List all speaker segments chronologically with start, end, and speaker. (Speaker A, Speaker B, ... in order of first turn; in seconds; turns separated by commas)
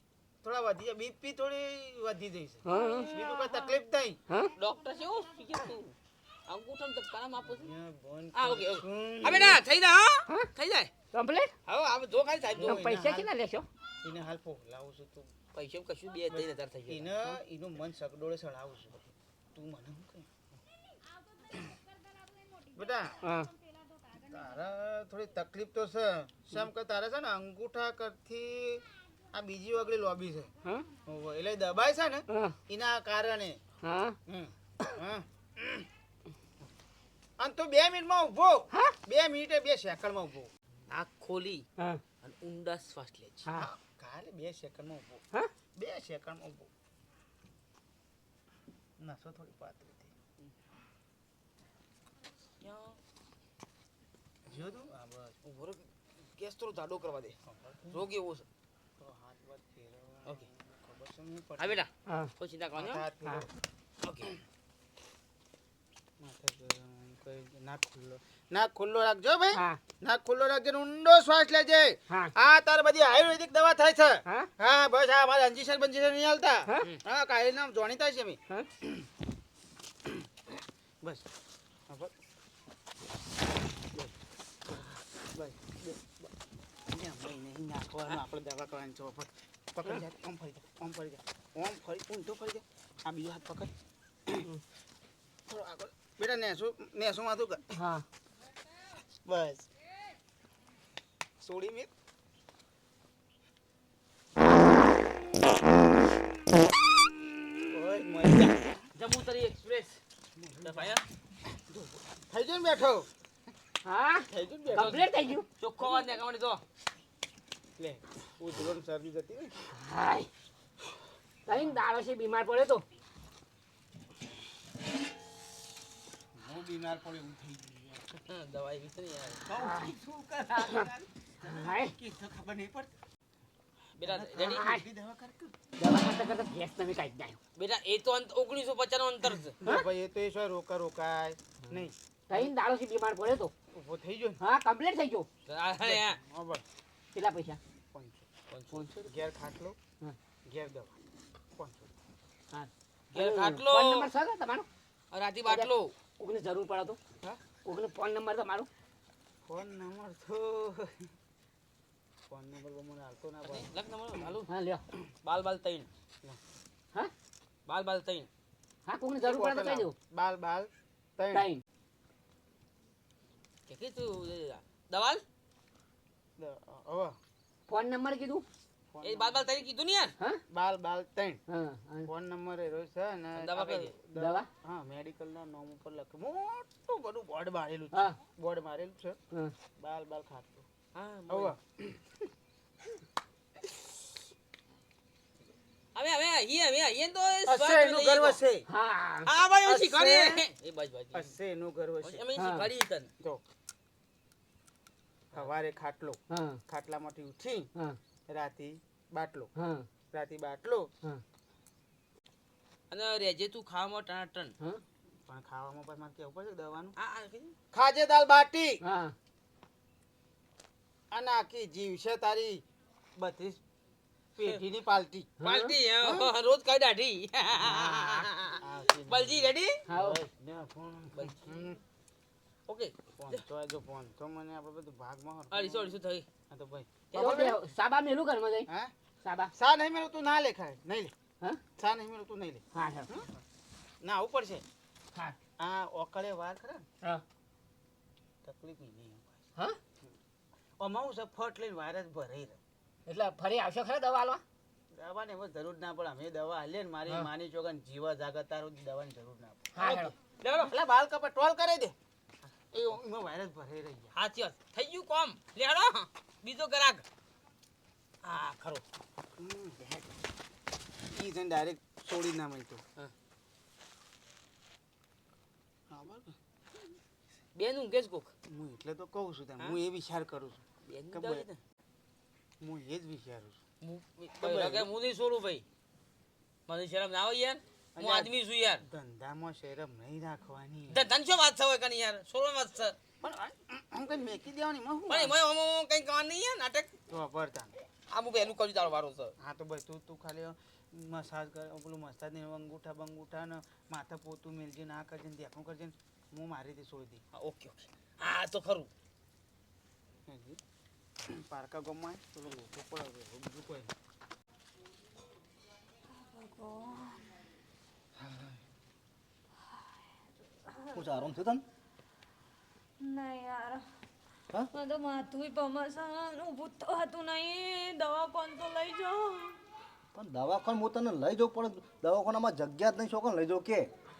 Speaker A: 0.4-4.2, Speaker B: 2.6-3.1, Speaker C: 4.5-5.9, Speaker C: 6.5-7.7, Speaker A: 7.5-9.6, Speaker C: 8.3-10.9, Speaker B: 11.1-11.5, Speaker C: 11.7-12.9, Speaker A: 12.5-13.3, Speaker B: 12.6-13.7, Speaker A: 14.0-15.3, Speaker C: 15.5-17.1, Speaker A: 16.3-20.3, Speaker A: 22.7-23.1, Speaker B: 23.2-23.5, Speaker A: 24.2-30.5, Speaker A: 31.1-33.6, Speaker B: 32.3-32.5, Speaker B: 33.8-34.1, Speaker A: 34.3-35.9, Speaker A: 37.4-40.5, Speaker C: 40.9-41.6, Speaker C: 42.2-43.5, Speaker A: 43.5-45.2, Speaker A: 45.8-46.7, Speaker A: 49.0-50.1, Speaker C: 52.6-53.0, Speaker A: 54.5-55.4, Speaker C: 55.4-57.4, Speaker A: 57.5-58.0, Speaker C: 57.9-58.5, Speaker A: 59.0-61.8, Speaker C: 61.6-63.0, Speaker B: 62.1-62.3, Speaker A: 62.8-63.5, Speaker C: 64.0-64.3, Speaker A: 66.2-79.0, Speaker B: 69.5-69.8, Speaker A: 85.3-86.2, Speaker A: 86.9-93.7, Speaker A: 95.5-97.6, Speaker B: 97.7-98.0, Speaker A: 99.2-99.7, Speaker A: 101.4-101.9, Speaker A: 107.7-108.7, Speaker C: 109.0-110.0, Speaker A: 110.3-111.0, Speaker C: 110.6-111.0, Speaker A: 111.5-113.1, Speaker B: 113.8-115.5, Speaker A: 114.3-115.0, Speaker C: 114.7-115.0, Speaker C: 115.6-116.6, Speaker A: 117.8-119.6, Speaker B: 119.7-120.3, Speaker B: 121.5-122.8, Speaker A: 126.3-128.1, Speaker C: 128.2-129.4, Speaker A: 129.4-133.0, Speaker B: 129.6-129.9, Speaker B: 131.4-131.9, Speaker C: 133.9-134.7, Speaker A: 134.0-135.5, Speaker B: 134.4-134.8, Speaker B: 135.8-137.4, Speaker C: 137.6-139.6, Speaker A: 139.6-142.5, Speaker B: 142.3-143.5, Speaker A: 143.7-144.4, Speaker B: 144.4-145.3, Speaker C: 145.5-146.2, Speaker A: 145.8-146.6, Speaker B: 147.1-147.6, Speaker A: 147.9-148.2, Speaker C: 148.5-148.9, Speaker B: 148.7-149.0, Speaker A: 149.0-149.8, Speaker A: 150.5-150.9, Speaker A: 151.6-151.9, Speaker B: 152.5-154.7, Speaker C: 153.1-154.1, Speaker C: 155.1-155.9, Speaker B: 155.5-157.0, Speaker B: 157.6-158.7, Speaker A: 159.4-161.1, Speaker A: 162.3-163.7, Speaker C: 163.4-164.5, Speaker B: 164.5-164.8, Speaker C: 165.2-165.9, Speaker C: 167.7-168.3, Speaker B: 168.9-169.9, Speaker A: 169.2-171.5, Speaker B: 171.3-171.6, Speaker C: 173.7-175.2, Speaker A: 176.4-177.2, Speaker B: 177.7-178.4, Speaker A: 178.9-179.5, Speaker C: 179.0-180.1, Speaker A: 180.5-181.4, Speaker B: 181.5-182.1, Speaker A: 182.1-189.2, Speaker C: 183.3-183.9, Speaker B: 184.1-184.5, Speaker A: 189.8-190.7, Speaker C: 190.9-191.5, Speaker A: 191.3-192.0, Speaker C: 195.9-198.4, Speaker A: 197.4-198.7, Speaker B: 198.7-200.4, Speaker C: 199.2-201.3, Speaker A: 201.1-202.2, Speaker C: 202.0-203.1, Speaker B: 202.4-202.7, Speaker A: 205.3-207.7, Speaker B: 206.3-206.6, Speaker A: 208.3-209.5, Speaker B: 209.6-209.8, Speaker A: 210.1-210.9, Speaker C: 212.9-214.5, Speaker A: 215.3-216.9, Speaker C: 217.0-217.5, Speaker A: 217.7-218.8, Speaker B: 218.8-219.1, Speaker A: 221.1-222.6, Speaker A: 223.2-223.6, Speaker A: 224.3-225.3, Speaker B: 225.4-225.7, Speaker C: 225.4-229.8, Speaker A: 226.0-226.3, Speaker A: 227.6-231.8, Speaker B: 229.9-230.2, Speaker C: 232.7-233.4, Speaker A: 233.2-236.0, Speaker C: 235.5-236.3, Speaker A: 236.5-237.6, Speaker C: 237.1-237.5, Speaker B: 237.2-238.7, Speaker B: 239.2-239.5, Speaker A: 239.6-241.1, Speaker A: 241.8-243.3, Speaker B: 242.7-243.1, Speaker A: 244.0-244.6, Speaker A: 245.6-246.8, Speaker A: 248.4-249.4, Speaker A: 250.8-252.6, Speaker B: 253.1-254.4, Speaker A: 255.0-259.9, Speaker B: 259.8-260.1, Speaker C: 259.8-260.7, Speaker A: 260.5-261.9, Speaker A: 262.7-264.1, Speaker C: 264.1-267.1, Speaker C: 268.2-268.8, Speaker A: 269.4-270.0, Speaker A: 271.1-272.8, Speaker A: 275.9-276.4, Speaker C: 277.5-278.3, Speaker A: 278.5-281.5, Speaker C: 280.9-281.6, Speaker A: 282.6-283.6, Speaker C: 283.8-285.6, Speaker A: 284.4-284.9, Speaker C: 286.7-288.8, Speaker A: 287.9-288.3, Speaker A: 288.8-291.1, Speaker C: 290.9-293.0, Speaker A: 293.2-295.3, Speaker C: 295.1-296.9, Speaker A: 297.1-297.8, Speaker C: 298.1-299.3, Speaker A: 299.4-307.2, Speaker C: 307.3-308.9, Speaker A: 310.3-310.6, Speaker A: 311.2-313.9, Speaker D: 316.1-317.3, Speaker A: 318.2-318.6, Speaker D: 320.6-321.0, Speaker E: 320.9-321.6, Speaker D: 323.0-323.9, Speaker D: 324.7-329.6, Speaker E: 330.1-333.9